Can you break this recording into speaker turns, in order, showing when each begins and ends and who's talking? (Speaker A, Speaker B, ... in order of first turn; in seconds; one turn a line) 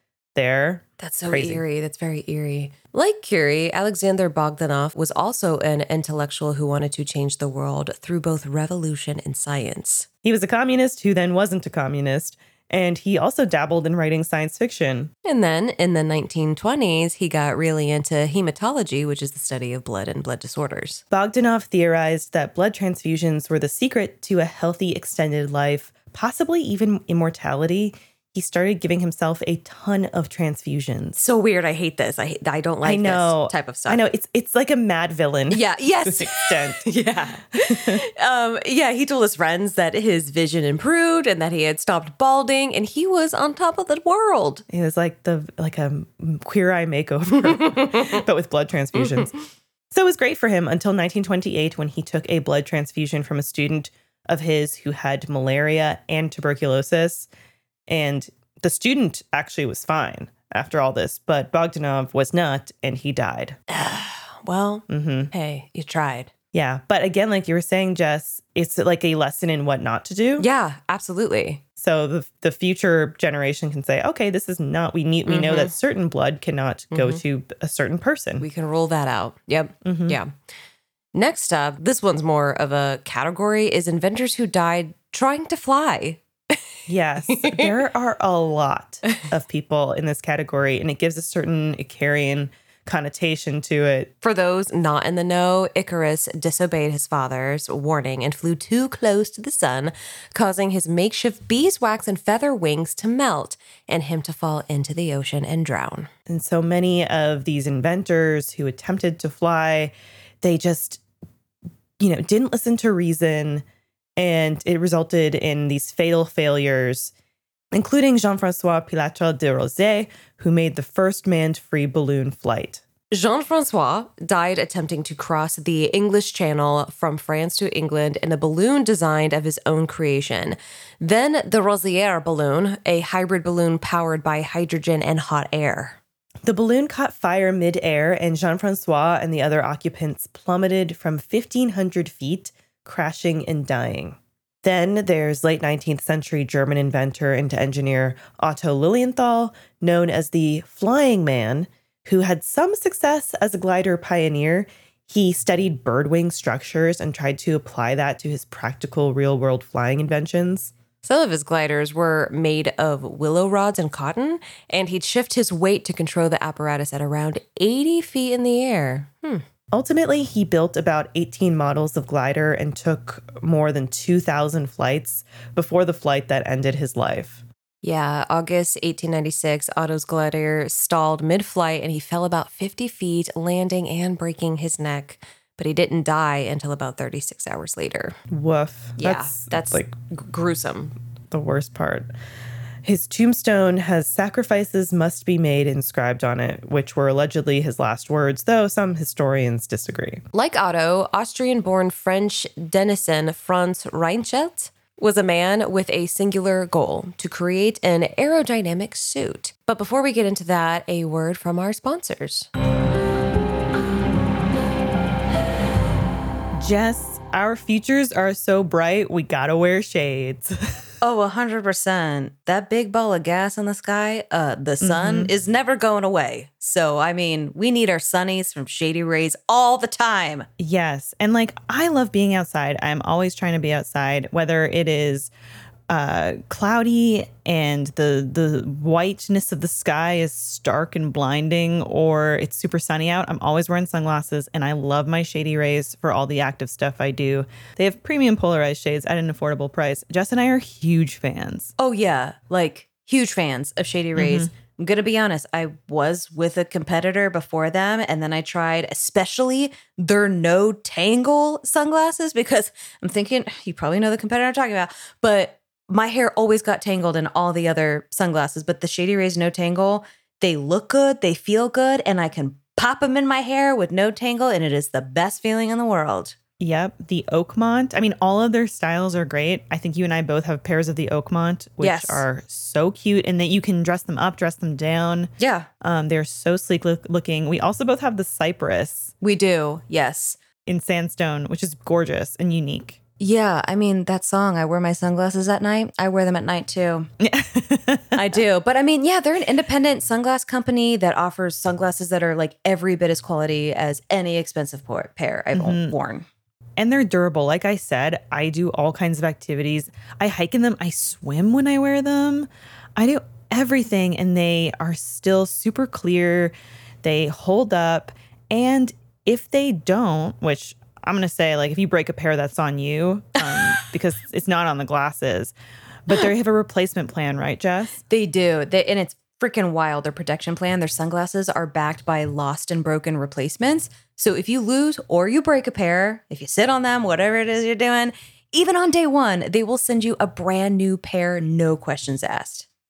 Speaker A: 0.3-1.6
Speaker B: 1.0-10.1
Speaker A: 10.2-15.1
Speaker B: 15.2-21.0
Speaker A: 21.1-31.2
Speaker B: 31.2-34.0
Speaker A: 32.8-36.9
Speaker B: 35.5-44.6
Speaker A: 37.5-38.0
Speaker A: 44.7-49.3
Speaker B: 47.6-48.1
Speaker A: 49.9-57.3
Speaker A: 57.9-63.6
Speaker B: 63.7-66.3
Speaker A: 64.9-65.3
Speaker A: 66.5-70.5
Speaker B: 70.4-71.6
Speaker A: 71.8-78.5
Speaker B: 75.3-75.7
Speaker B: 76.9-77.2
Speaker B: 78.4-80.3
Speaker A: 79.8-80.2
Speaker B: 81.1-86.6
Speaker A: 86.9-94.1
Speaker B: 87.3-87.7
Speaker B: 94.2-106.1
Speaker A: 106.3-111.0
Speaker A: 112.0-113.7
Speaker A: 114.2-117.1
Speaker A: 117.7-122.8
Speaker B: 123.1-136.0
Speaker A: 136.4-160.7
Speaker B: 161.0-169.4
Speaker A: 169.7-177.4
Speaker B: 177.8-188.2
Speaker A: 188.3-189.9
Speaker B: 189.0-190.9
Speaker A: 191.3-192.1
Speaker A: 192.8-200.2
Speaker B: 200.3-212.5
Speaker A: 216.6-220.8
Speaker C: 221.0-230.5
Speaker A: 224.8-225.3
Speaker A: 230.6-235.3
Speaker A: 235.9-251.7
Speaker C: 251.8-276.4
Speaker A: 254.2-254.5
Speaker A: 276.6-289.1
Speaker C: 281.8-282.2
Speaker C: 285.4-285.7
Speaker C: 289.2-290.4
Speaker A: 290.7-293.0
Speaker C: 293.2-297.1
Speaker A: 297.2-298.3
Speaker C: 298.1-306.3
Speaker A: 305.5-305.9
Speaker A: 306.8-325.5
Speaker A: 326.1-328.0
Speaker C: 328.1-342.7